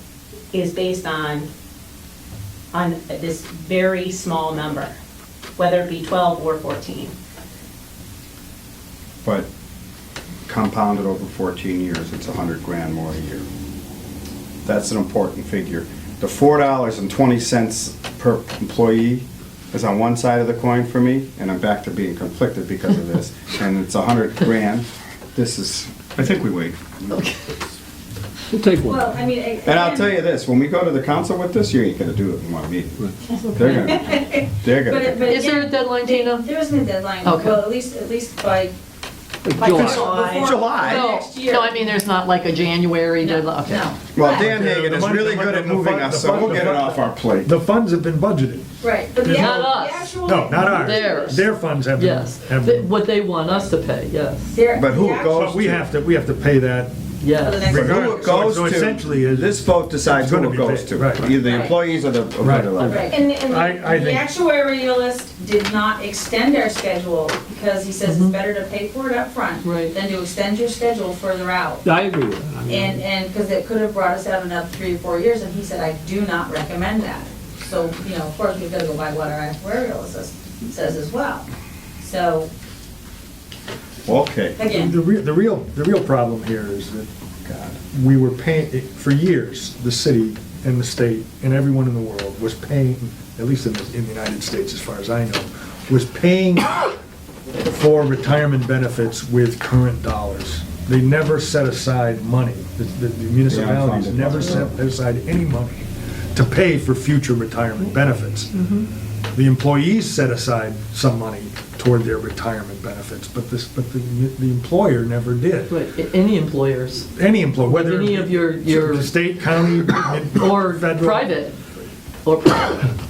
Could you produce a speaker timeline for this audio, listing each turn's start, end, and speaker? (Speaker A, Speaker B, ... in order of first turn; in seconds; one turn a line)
Speaker A: 0.5-1.5
Speaker A: 2.7-4.9
Speaker A: 5.6-7.1
Speaker B: 10.5-13.4
Speaker B: 14.7-27.2
Speaker C: 27.1-27.4
Speaker D: 28.5-29.2
Speaker E: 28.9-30.2
Speaker B: 29.6-35.4
Speaker E: 33.7-38.8
Speaker C: 35.2-36.5
Speaker C: 37.2-37.6
Speaker D: 39.4-40.2
Speaker A: 39.6-40.8
Speaker B: 39.6-41.1
Speaker E: 39.8-41.8
Speaker C: 40.8-43.9
Speaker E: 43.2-44.0
Speaker B: 44.1-47.5
Speaker F: 44.4-48.7
Speaker E: 48.8-51.4
Speaker F: 49.2-49.6
Speaker C: 49.3-54.6
Speaker F: 50.2-52.9
Speaker E: 54.5-55.4
Speaker B: 54.7-55.9
Speaker F: 55.4-57.0
Speaker C: 57.2-57.8
Speaker E: 57.3-58.5
Speaker F: 57.6-59.5
Speaker B: 57.8-63.1
Speaker F: 60.1-61.3
Speaker E: 61.3-61.7
Speaker F: 62.4-62.8
Speaker E: 62.8-71.9
Speaker A: 62.9-63.9
Speaker F: 63.5-64.3
Speaker C: 68.0-68.4
Speaker C: 69.6-70.0
Speaker D: 71.8-73.0
Speaker E: 72.7-81.5
Speaker E: 82.0-82.5
Speaker B: 84.0-84.7
Speaker E: 84.6-85.0
Speaker F: 84.8-87.1
Speaker B: 87.5-87.8
Speaker F: 87.9-97.0
Speaker F: 97.7-108.5
Speaker B: 103.5-104.8
Speaker C: 108.5-108.9
Speaker F: 109.3-115.7
Speaker C: 115.7-117.1
Speaker F: 117.1-121.3
Speaker C: 117.7-119.1
Speaker C: 120.2-121.6
Speaker C: 122.2-122.9